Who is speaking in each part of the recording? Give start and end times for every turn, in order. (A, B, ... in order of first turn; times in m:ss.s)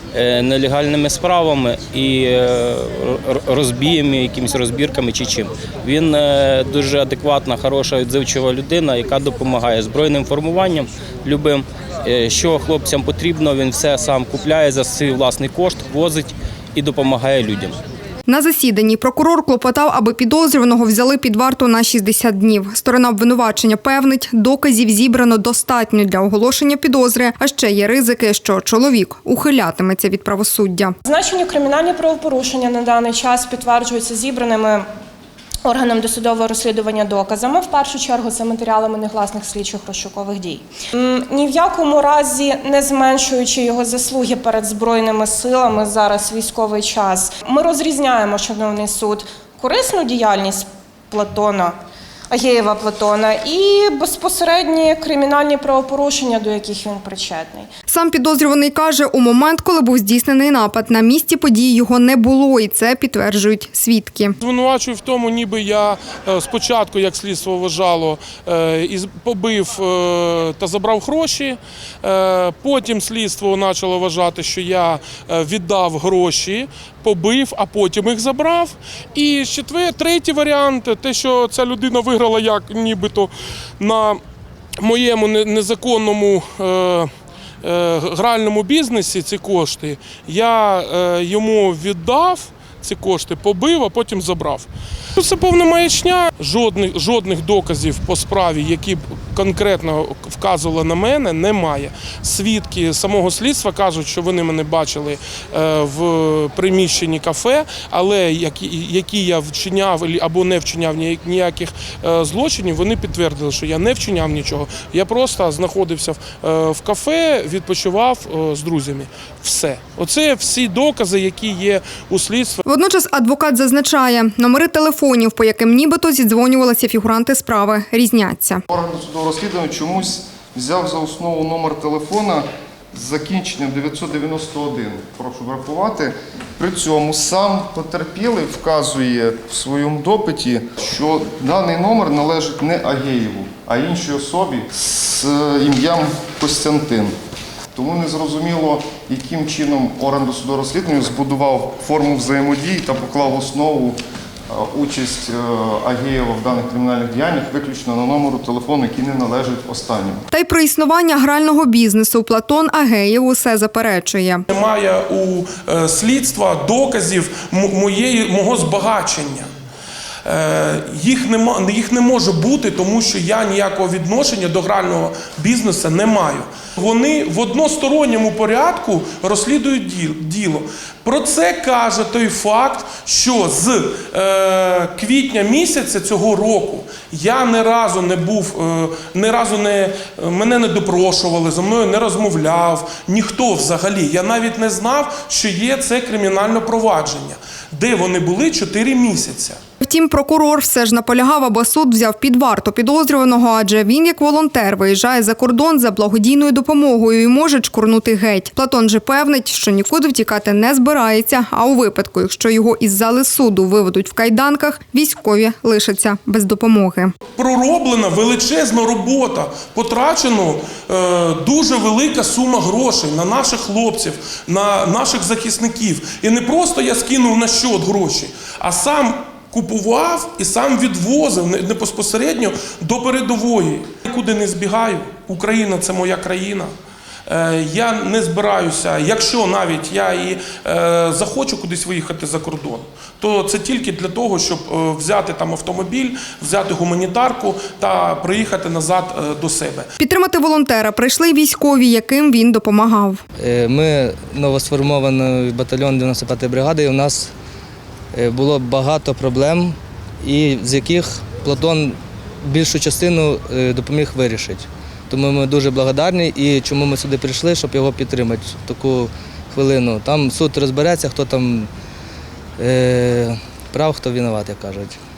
0:00.1-0:17.8 A
0:18.3-0:31.0 B
0:31.1-0:34.9 C
0:35.6-0:51.8 C
0:52.3-0:57.7 C
0:57.9-1:04.4 B
1:04.4-1:24.2 D
1:24.8-1:27.1 D
1:27.6-2:02.6 D
2:02.6-2:08.6 B
2:08.7-2:27.1 E
2:27.7-2:34.0 E
2:34.5-2:40.2 E
2:40.3-2:44.5 B
2:44.5-2:49.5 D
2:50.2-3:19.6 D
3:19.8-3:37.1 B
3:37.4-3:56.7 D
3:57.3-4:09.9 D
4:10.0-4:13.2 B
4:13.4-4:17.3 F
4:18.1-4:31.7 F
4:32.6-4:35.0 F